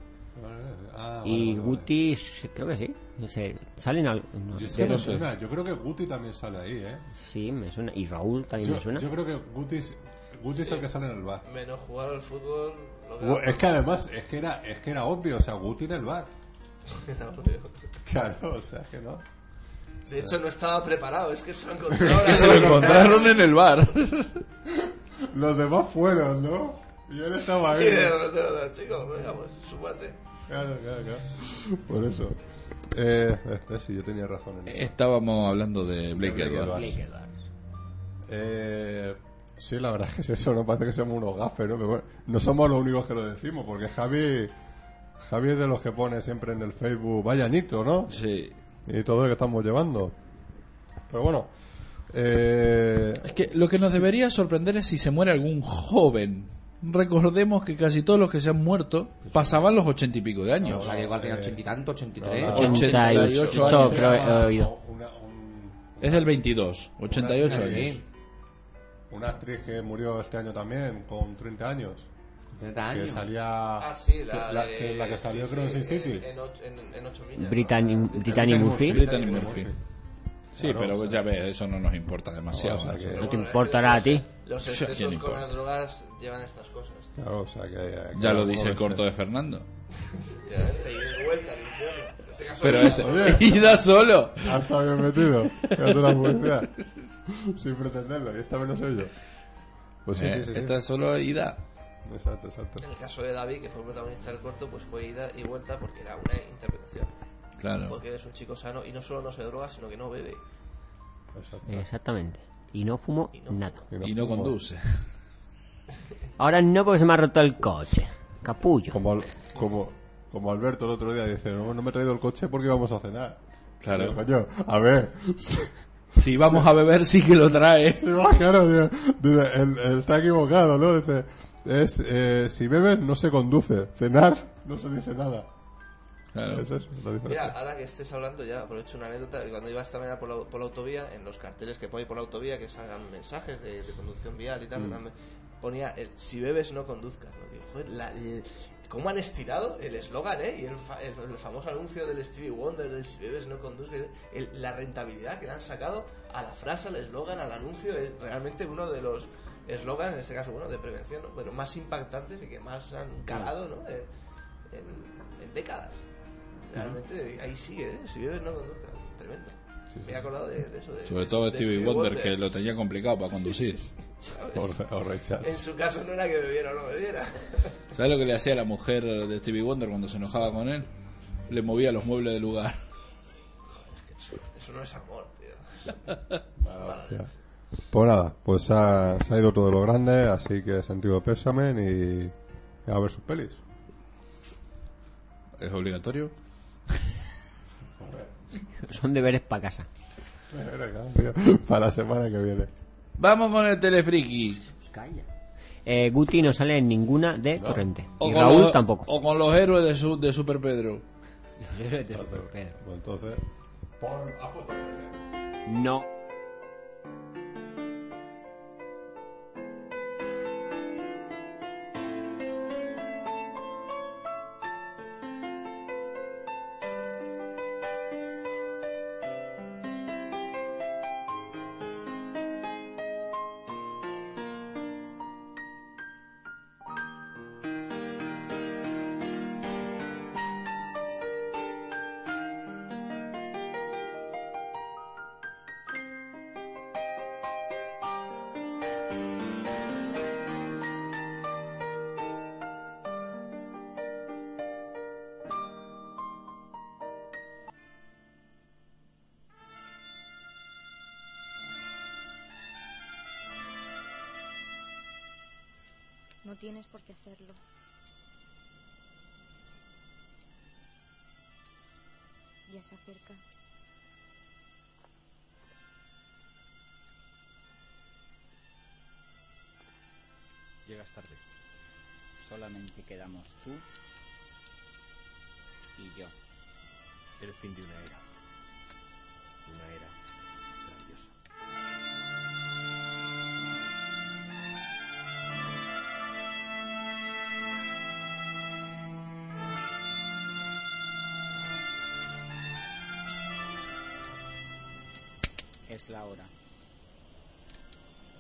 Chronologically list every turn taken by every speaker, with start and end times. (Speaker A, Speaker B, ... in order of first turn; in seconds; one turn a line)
Speaker A: 0.3-1.9
Speaker B: 1.2-5.2
Speaker A: 4.5-7.1
Speaker C: 4.7-5.2
Speaker B: 7.2-9.1
Speaker A: 8.6-11.4
Speaker D: 10.5-10.9
Speaker D: 11.4-13.7
Speaker A: 13.2-16.3
Speaker D: 16.9-17.8
Speaker A: 18.0-19.2
Speaker D: 20.1-23.5
Speaker A: 21.9-23.2
Speaker C: 22.1-24.4
Speaker A: 24.7-28.2
Speaker D: 27.6-30.2
Speaker A: 30.5-32.4
Speaker A: 32.9-34.9
Speaker C: 34.7-36.8
Speaker A: 36.1-37.0
Speaker B: 36.7-37.4
Speaker A: 38.2-44.5
Speaker A: 45.2-48.2
Speaker C: 48.1-48.6
Speaker A: 48.9-50.2
Speaker A: 51.1-51.5
Speaker A: 52.1-53.4
Speaker C: 53.2-60.9
Speaker E: 59.3-59.6
Speaker A: 60.6-61.6
Speaker E: 60.7-62.8
Speaker A: 62.2-66.4
Speaker B: 62.5-64.7
Speaker C: 62.5-64.4
Speaker C: 66.0-68.0
Speaker A: 67.0-68.0
Speaker E: 67.4-68.0
Speaker A: 69.1-72.1
Speaker E: 72.5-73.3
Speaker A: 72.9-76.3
Speaker D: 73.8-79.7
Speaker B: 77.4-79.0
Speaker A: 78.3-79.8
Speaker C: 78.3-79.7
Speaker A: 80.6-81.2
Speaker C: 80.6-83.2
Speaker A: 82.5-83.4
Speaker D: 83.1-87.2
Speaker B: 83.2-84.2
Speaker C: 84.6-85.5
Speaker A: 87.2-89.0
Speaker C: 88.1-89.7
Speaker D: 90.3-93.8
Speaker C: 92.6-94.8
Speaker A: 92.9-93.6
Speaker A: 94.4-96.7
Speaker C: 95.6-96.6
Speaker A: 97.3-99.1
Speaker A: 100.0-100.8
Speaker C: 100.2-101.6
Speaker A: 102.0-102.9
Speaker D: 102.8-107.1
Speaker C: 107.6-108.0
Speaker D: 107.8-110.4
Speaker A: 111.3-111.8
Speaker B: 111.7-113.8
Speaker D: 113.3-113.6
Speaker A: 113.9-114.5
Speaker C: 114.0-115.1
Speaker B: 116.4-119.0
Speaker A: 118.9-126.7
Speaker C: 123.8-124.2
Speaker C: 126.2-128.1
Speaker A: 127.8-135.5
Speaker C: 136.3-136.7
Speaker A: 136.5-137.6
Speaker D: 137.2-164.1
Speaker A: 144.8-145.0
Speaker D: 164.7-166.1
Speaker D: 166.6-172.5
Speaker A: 169.9-170.2
Speaker C: 171.1-173.8
Speaker D: 173.3-174.8
Speaker A: 174.5-175.6
Speaker D: 175.4-177.8
Speaker C: 177.9-180.9
Speaker C: 181.5-182.8
Speaker D: 183.7-187.3
Speaker A: 186.6-187.3
Speaker A: 187.9-192.3
Speaker A: 192.9-193.6
Speaker C: 195.6-196.3
Speaker A: 198.0-198.3
Speaker B: 198.8-199.9
Speaker A: 200.5-202.7
Speaker C: 203.2-204.6
Speaker B: 204.7-205.3
Speaker B: 205.8-209.1
Speaker A: 207.6-207.8
Speaker C: 208.2-211.1
Speaker B: 211.6-212.8
Speaker A: 212.1-213.4
Speaker A: 214.0-215.2
Speaker B: 215.7-216.0
Speaker F: 266.4-267.6
Speaker F: 272.7-273.4
Speaker G: 280.9-281.4
Speaker G: 282.4-283.8
Speaker G: 286.0-286.3
Speaker G: 287.4-288.2
Speaker G: 289.7-290.1
Speaker G: 290.8-291.3
Speaker G: 305.9-306.5